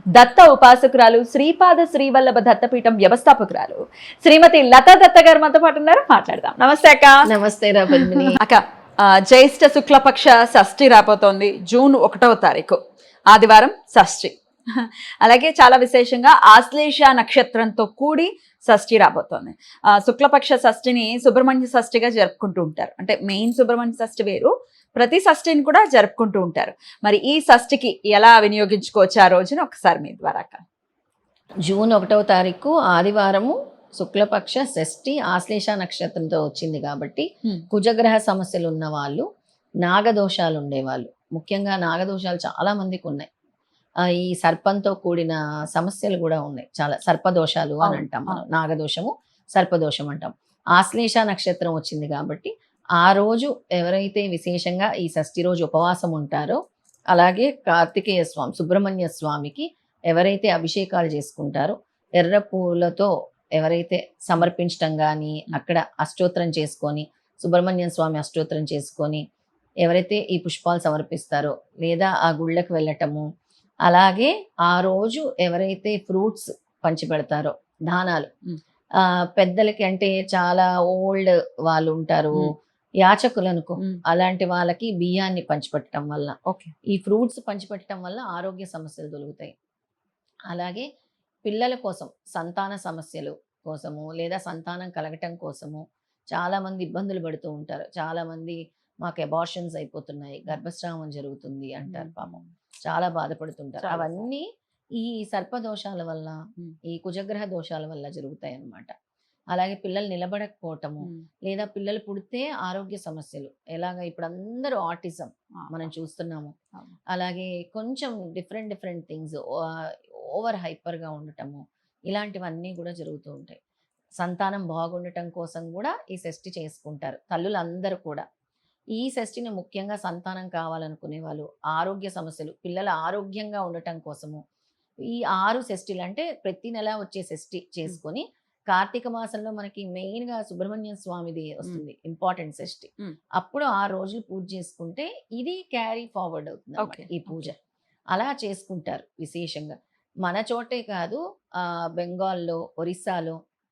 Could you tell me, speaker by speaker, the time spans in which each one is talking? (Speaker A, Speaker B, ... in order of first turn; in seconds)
Speaker A: 0.1-7.3, 8.0-12.8, 13.3-30.6, 47.8-48.4, 86.5-86.7, 101.9-102.5, 103.8-104.3, 115.6-115.9, 146.8-147.5
Speaker B: 7.3-8.4, 31.6-39.3, 39.8-43.3, 44.0-56.6, 57.1-69.2, 69.8-73.2, 73.9-78.3, 79.0-82.5, 83.0-86.4, 86.9-89.5, 90.5-90.9, 91.5-104.5, 105.0-108.9, 109.5-116.5, 117.1-123.6, 124.2-128.2, 129.0-134.4, 135.1-147.6, 148.1-153.4